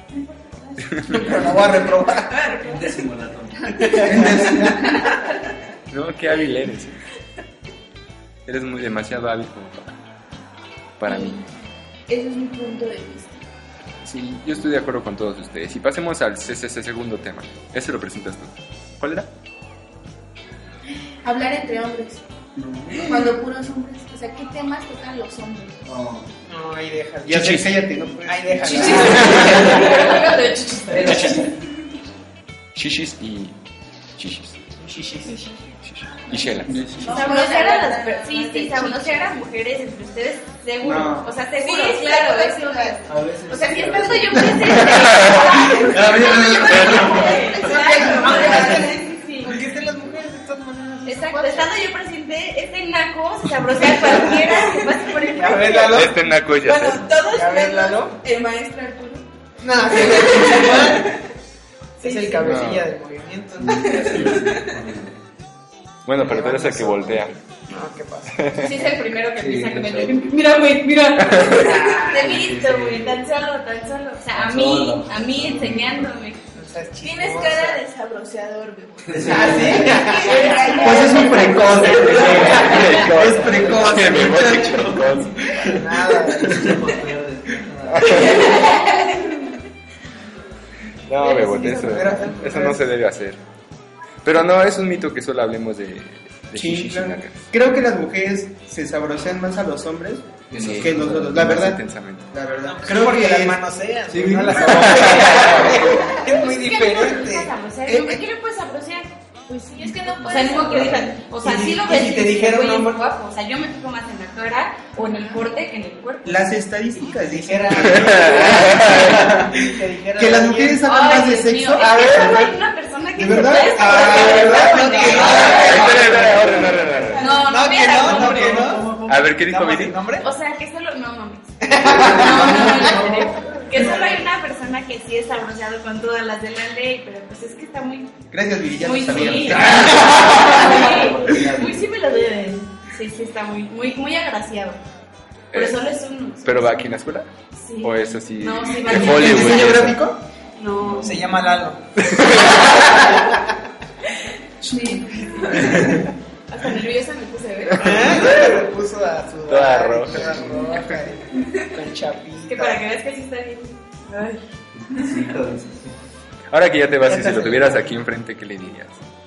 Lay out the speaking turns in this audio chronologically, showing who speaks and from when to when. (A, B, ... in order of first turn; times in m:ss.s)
0:00.2-0:01.2 A
0:00.8-0:01.5 B
0:01.1-0:02.4 C
0:02.3-0:02.6 A
0:02.5-0:02.9 D
0:02.6-0:04.1 E
0:03.8-0:04.3 A
0:03.8-0:04.0 D
0:04.0-0:04.8 F
0:04.1-0:05.0 C
0:05.9-0:07.0 B
0:08.4-0:10.0 B
0:11.0-0:11.4 B
0:11.0-0:11.4 A
0:12.1-0:13.4 A
0:14.0-0:19.3 B
0:21.2-0:22.2 A
0:22.6-0:23.3 F
0:23.0-0:25.8 A
0:25.8-0:26.3 E
0:26.5-0:30.1 C
0:27.2-0:29.6 F
0:28.7-0:31.4 D
0:30.9-0:31.5 E
0:31.0-0:31.5 B
0:32.7-0:33.5 B
0:34.2-0:34.6 B
0:34.8-0:35.4 C
0:35.8-0:36.8 B
0:36.6-0:37.2 F
0:37.0-0:39.4 A
0:37.0-0:49.6 D
0:40.8-0:41.3 F
0:41.6-0:43.1 A
0:43.0-0:45.0 E
0:45.3-0:49.3 A
0:45.8-0:47.4 F
0:46.7-0:47.1 B
0:47.7-0:51.7 C
0:51.0-0:56.0 D
0:51.1-0:51.7 A
0:55.3-0:56.2 C
0:55.8-0:57.1 B
0:56.6-0:59.2 A
0:57.2-0:58.1 C
0:59.6-1:01.1 C
0:59.9-1:00.9 A
1:02.0-1:02.4 A
1:02.0-1:04.3 C
1:02.4-1:02.9 B
1:03.6-1:05.1 E
1:03.9-1:04.5 A
1:06.0-1:07.3 B
1:06.3-1:07.1 C
1:07.7-1:08.5 C
1:08.4-1:08.7 B
1:08.5-1:16.4 D
1:09.4-1:10.3 E
1:11.2-1:12.4 B
1:12.1-1:13.1 E
1:14.3-1:16.1 E
1:16.5-1:17.8 C
1:17.0-1:22.5 A
1:19.0-1:20.1 E
1:19.2-1:22.9 C
1:20.6-1:21.4 D
1:20.7-1:25.0 F
1:21.7-1:25.5 B
1:22.2-1:25.8 E
1:25.6-1:27.0 C
1:26.4-1:28.6 E
1:27.9-1:28.5 B
1:28.1-1:29.5 D
1:28.3-1:28.8 A
1:31.1-1:33.4 B
1:31.2-1:31.9 A
1:31.4-1:32.8 C
1:32.1-1:32.4 E
1:34.2-1:37.5 B
1:36.5-1:41.8 F
1:40.5-1:41.5 E
1:40.6-1:42.3 B
1:42.3-1:43.6 F
1:42.6-1:47.5 C
1:44.1-1:45.5 E
1:44.6-1:45.8 B
1:44.8-1:45.4 F
1:46.2-1:49.1 D
1:47.9-1:48.1 F
1:49.5-1:51.0 A
1:49.8-1:56.5 D
1:50.3-1:51.3 E
1:51.4-1:53.1 C
1:56.2-1:59.6 F
1:57.1-2:00.8 C
1:57.9-1:59.3 B
2:00.1-2:02.5 F
2:00.8-2:05.8 D
2:01.9-2:02.4 C
2:03.2-2:06.0 F
2:03.7-2:06.7 C
2:05.2-2:07.2 B
2:05.2-2:07.3 E
2:07.1-2:07.6 A
2:07.2-2:08.8 D
2:07.2-2:10.3 C
2:07.9-2:09.3 E
2:09.1-2:10.0 B
2:10.2-2:18.2 D
2:11.6-2:13.0 C
2:11.8-2:14.0 E
2:18.3-2:20.5 F
2:18.7-2:24.8 D
2:19.3-2:21.9 E
2:25.5-2:25.8 B
2:25.5-2:26.9 D
2:26.4-2:27.3 B
2:27.6-2:29.8 D
2:27.8-2:30.0 B
2:28.9-2:30.2 F
2:30.6-2:31.1 D
2:30.8-2:31.5 E
2:30.9-2:33.4 C
2:32.0-2:33.1 B
2:34.2-2:35.9 D
2:34.6-2:35.0 F
2:35.6-2:36.0 F
2:36.5-2:38.0 D
2:37.8-2:38.5 B
2:37.8-2:42.8 C
2:39.5-2:40.6 B
2:40.1-2:40.7 E
2:41.4-2:41.7 D
2:42.5-2:44.4 D
2:44.7-2:45.9 E
2:46.5-2:49.0 B
2:47.0-2:47.9 C